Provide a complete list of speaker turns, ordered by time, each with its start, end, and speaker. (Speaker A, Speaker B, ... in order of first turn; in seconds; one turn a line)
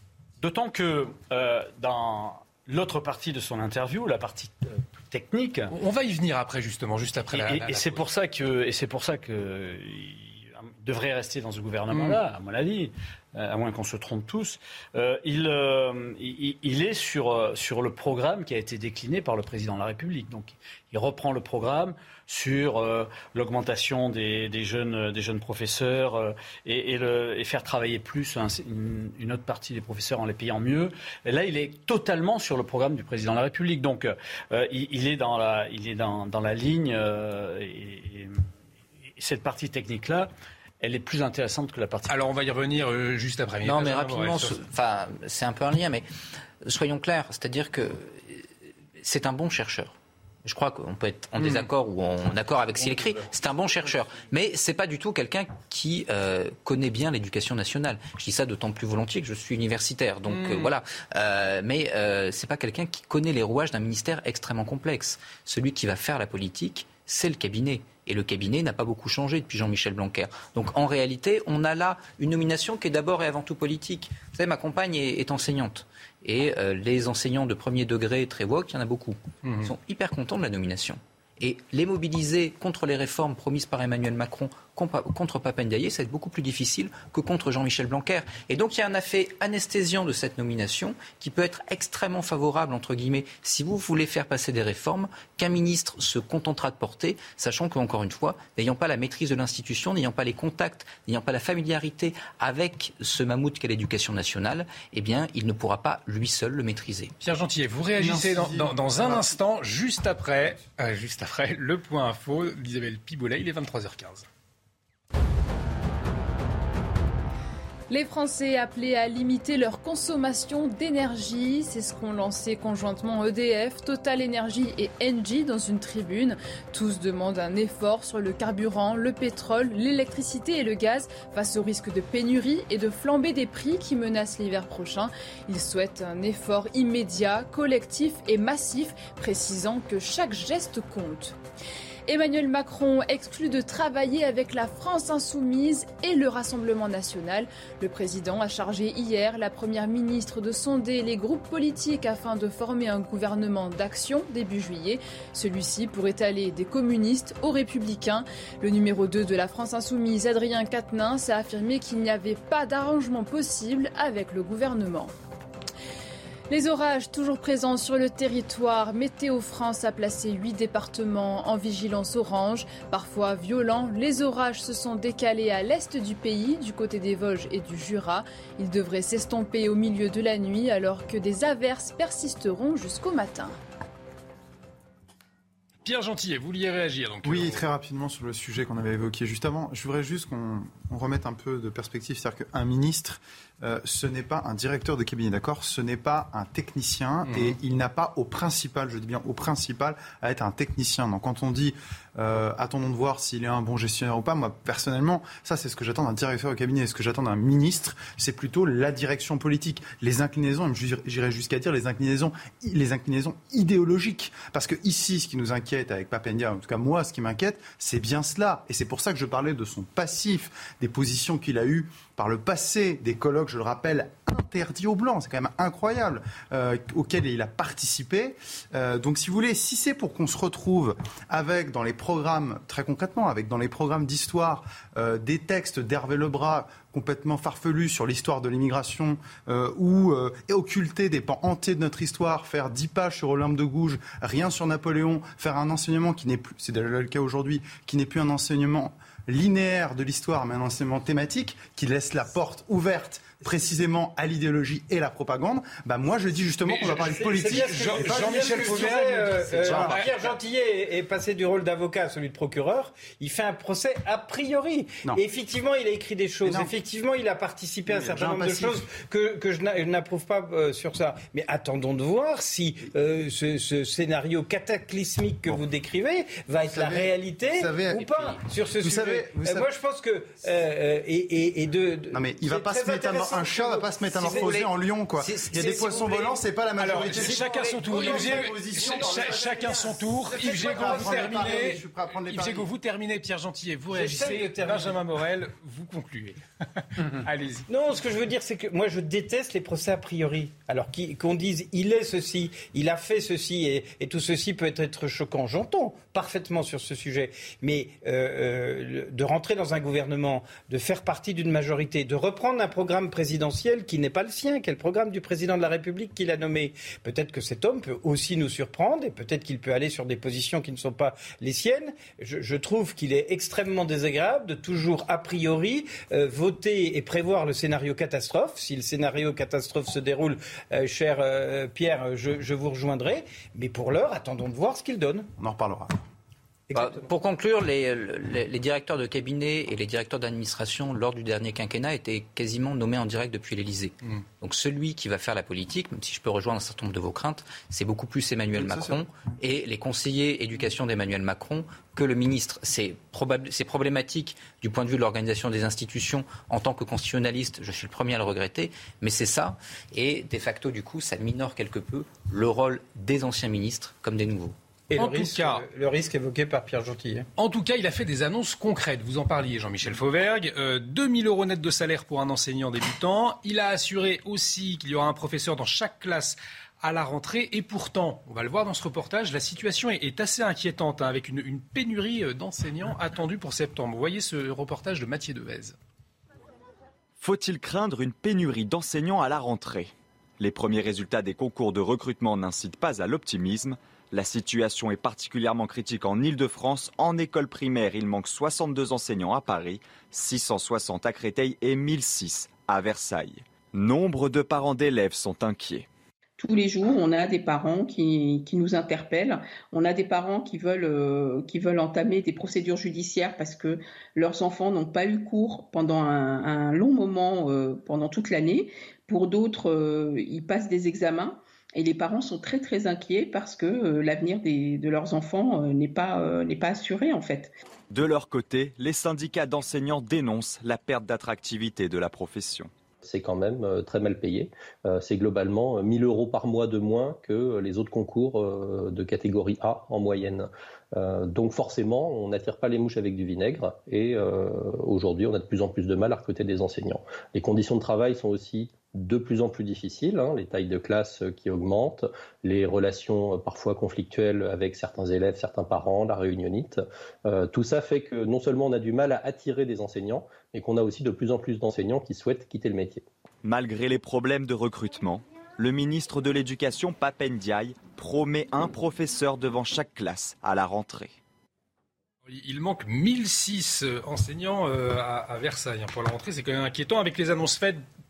Speaker A: 0.4-5.7
Speaker B: 5.7-8.0
Speaker A: 7.3-38.4
Speaker B: 11.9-12.2
Speaker A: 39.2-40.3
Speaker A: 40.8-42.1
Speaker B: 42.1-44.6
Speaker C: 43.6-46.0
Speaker C: 46.6-48.5
Speaker C: 49.0-107.1
Speaker B: 51.4-51.7
Speaker B: 60.3-60.7
Speaker B: 79.4-79.7
Speaker B: 107.2-114.2
Speaker D: 108.0-109.3
Speaker E: 117.9-141.4
Speaker E: 142.1-165.1
Speaker E: 166.5-183.6
Speaker B: 185.8-187.7
Speaker D: 187.2-259.9
Speaker B: 197.2-197.6
Speaker B: 256.6-260.1
Speaker F: 256.9-284.7
Speaker D: 267.9-268.8
Speaker D: 276.7-279.7
Speaker D: 282.1-292.7
Speaker C: 284.1-286.4
Speaker F: 285.7-286.3
Speaker B: 286.8-296.4
Speaker F: 287.6-289.6
Speaker F: 290.3-291.8
Speaker F: 293.9-295.0
Speaker B: 297.0-297.7
Speaker F: 297.7-335.3
Speaker D: 335.4-336.0
Speaker F: 336.7-337.0
Speaker C: 336.7-364.5
Speaker D: 348.5-349.0
Speaker F: 364.9-367.2
Speaker B: 365.0-365.6
Speaker B: 367.4-385.8
Speaker G: 387.2-405.9
Speaker H: 406.4-427.5
Speaker G: 427.9-432.7
Speaker I: 433.0-463.0
Speaker G: 463.4-471.1
Speaker B: 472.2-477.8